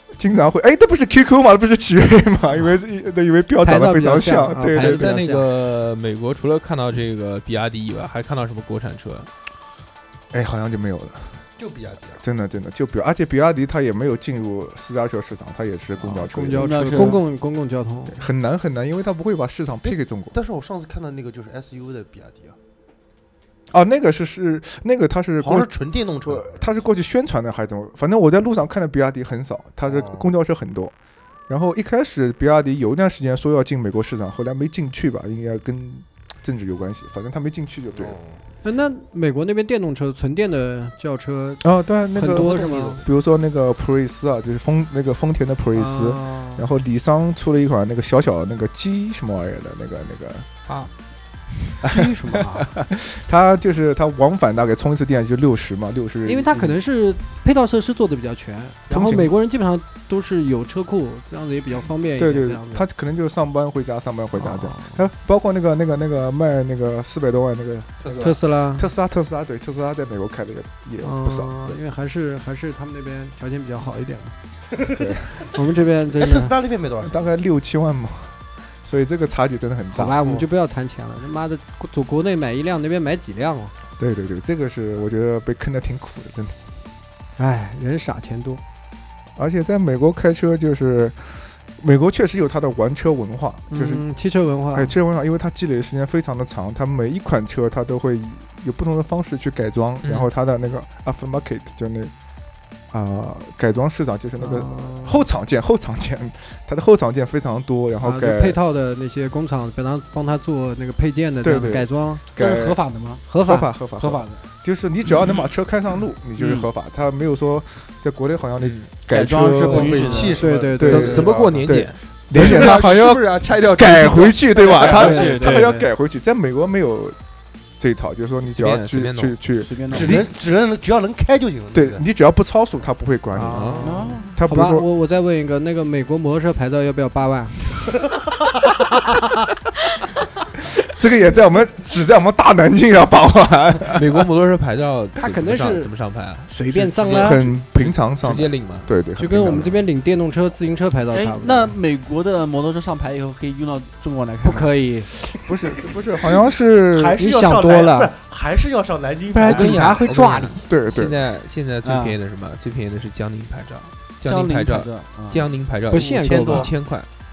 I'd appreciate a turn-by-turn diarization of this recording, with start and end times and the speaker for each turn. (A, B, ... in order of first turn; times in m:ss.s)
0:00.2-0:05.3 A
0:03.6-0:05.5 B
0:04.7-0:09.3 C
0:10.3-0:11.4 A
0:11.6-0:12.2 D
0:12.2-0:17.2 A
0:16.2-0:18.2 B
0:16.5-0:17.2 E
0:18.1-0:20.4 A
0:19.8-0:22.6 D
0:23.7-0:25.7 A
0:25.4-0:26.6 D
0:26.3-0:30.9 A
0:29.8-0:30.3 D
0:31.5-0:38.2 A
0:38.0-0:38.4 D
0:38.6-0:43.0 B
0:41.6-0:50.5 A
0:42.3-0:43.0 D
0:45.8-0:46.7 B
0:51.8-0:52.7 E
0:51.8-0:56.8 A
0:56.2-1:02.8 B
0:58.9-0:59.3 A
1:02.2-1:11.8 A
1:04.4-1:04.7 B
1:08.2-1:08.9 B
1:11.0-1:14.4 B
1:15.0-1:15.3 A
1:15.4-1:16.6 B
1:16.1-1:17.2 D
1:17.0-1:20.2 A
1:19.9-1:23.7 B
1:24.0-1:26.6 A
1:27.4-1:28.6 B
1:29.4-1:34.1 A
1:33.7-1:34.9 B
1:34.7-1:42.1 A
1:40.0-1:40.3 C
1:42.9-1:48.6 A
1:44.4-1:45.2 B
1:48.0-1:52.2 B
1:51.4-1:52.8 A
1:52.4-1:53.2 E
1:53.3-1:53.7 B
1:53.4-2:00.0 A
1:54.0-1:54.4 E
1:56.4-1:56.7 E
1:58.6-1:58.9 C
1:59.1-2:00.5 E
1:59.7-2:01.3 B
1:59.7-2:01.2 D
2:00.6-2:07.2 A
2:00.8-2:05.4 C
2:04.7-2:05.7 E
2:04.8-2:05.9 B
2:07.8-2:10.2 A
2:08.5-2:09.4 C
2:09.6-2:10.3 E
2:09.9-2:12.0 D
2:11.7-2:13.8 A
2:13.3-2:17.7 B
2:13.5-2:14.0 C
2:13.8-2:14.3 E
2:14.4-2:14.9 A
2:20.7-2:24.2 A
2:24.0-2:28.9 C
2:25.2-2:25.9 B
2:26.5-2:27.4 B
2:27.1-2:29.8 A
2:29.2-2:31.8 B
2:31.1-2:34.7 E
2:34.4-2:35.1 B
2:35.5-2:37.2 A
2:36.3-2:40.0 D
2:37.2-2:38.1 B
2:39.3-2:40.6 B
2:39.4-2:47.1 C
2:40.7-2:41.2 A
2:41.8-2:42.2 E
2:44.2-2:45.5 E
2:45.9-2:46.7 B
2:46.1-2:46.7 D